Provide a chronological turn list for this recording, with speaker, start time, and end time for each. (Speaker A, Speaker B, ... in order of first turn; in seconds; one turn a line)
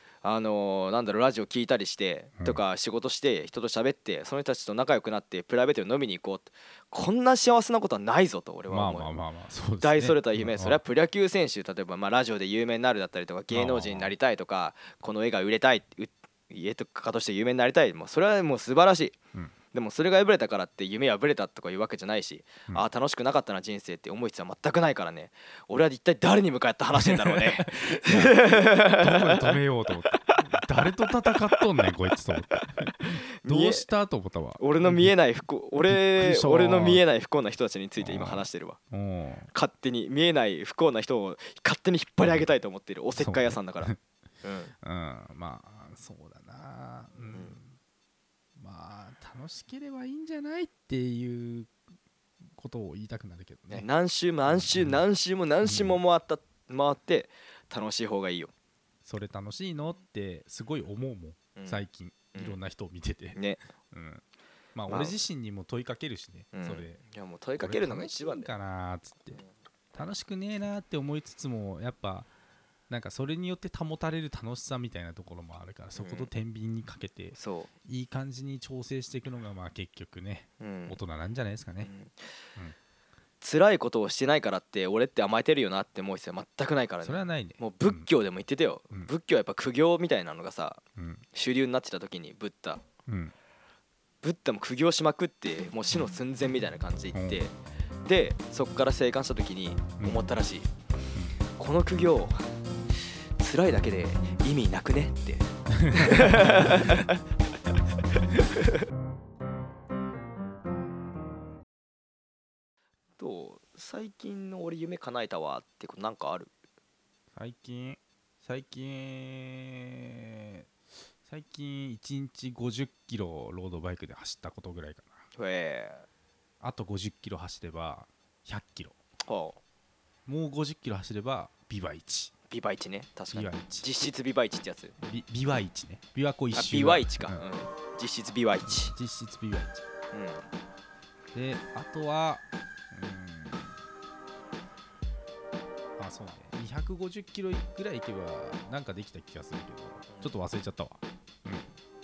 Speaker A: 0.2-9.1
Speaker B: 8.7-10.8
Speaker A: 9.8-19.2
Speaker B: 13.5-14.1
Speaker A: 19.7-29.6
Speaker B: 26.9-35.1
Speaker A: 30.3-31.6
Speaker A: 32.6-33.9
Speaker A: 34.6-38.8
Speaker B: 35.9-37.0
Speaker B: 38.0-39.5
Speaker A: 39.5-43.9
Speaker B: 43.2-44.0
Speaker A: 44.4-44.7
Speaker B: 44.8-47.7
Speaker A: 47.3-47.6
Speaker B: 48.6-51.7
Speaker B: 52.5-53.9
Speaker A: 53.7-58.5
Speaker B: 54.5-55.0
Speaker B: 55.6-56.0
Speaker B: 59.0-63.4
Speaker A: 61.5-62.6
Speaker A: 63.4-63.6
Speaker B: 63.9-64.2
Speaker B: 64.7-67.0
Speaker A: 64.9-65.2
Speaker A: 66.5-68.5
Speaker B: 67.6-69.4
Speaker B: 69.9-72.3
Speaker B: 72.9-81.9
Speaker A: 75.9-76.3
Speaker A: 77.3-77.7
Speaker A: 80.6-81.0
Speaker A: 81.8-82.3
Speaker A: 83.4-90.8
Speaker B: 87.0-88.0
Speaker B: 91.0-91.2
Speaker A: 91.3-92.8
Speaker B: 93.1-93.3
Speaker A: 94.2-97.5
Speaker B: 97.1-97.4
Speaker A: 98.0-100.7
Speaker A: 101.5-102.4
Speaker A: 103.4-107.2
Speaker B: 105.8-107.0
Speaker A: 113.2-116.5
Speaker B: 117.3-120.6
Speaker B: 121.2-125.2
Speaker A: 125.3-126.0
Speaker B: 126.6-128.9
Speaker A: 129.2-129.6
Speaker B: 130.2-132.3
Speaker A: 132.5-134.9
Speaker B: 133.3-133.9
Speaker B: 135.0-137.4
Speaker A: 136.5-138.9
Speaker B: 138.8-139.8
Speaker A: 140.1-140.5
Speaker B: 141.3-143.8
Speaker B: 146.0-151.7
Speaker A: 150.1-150.3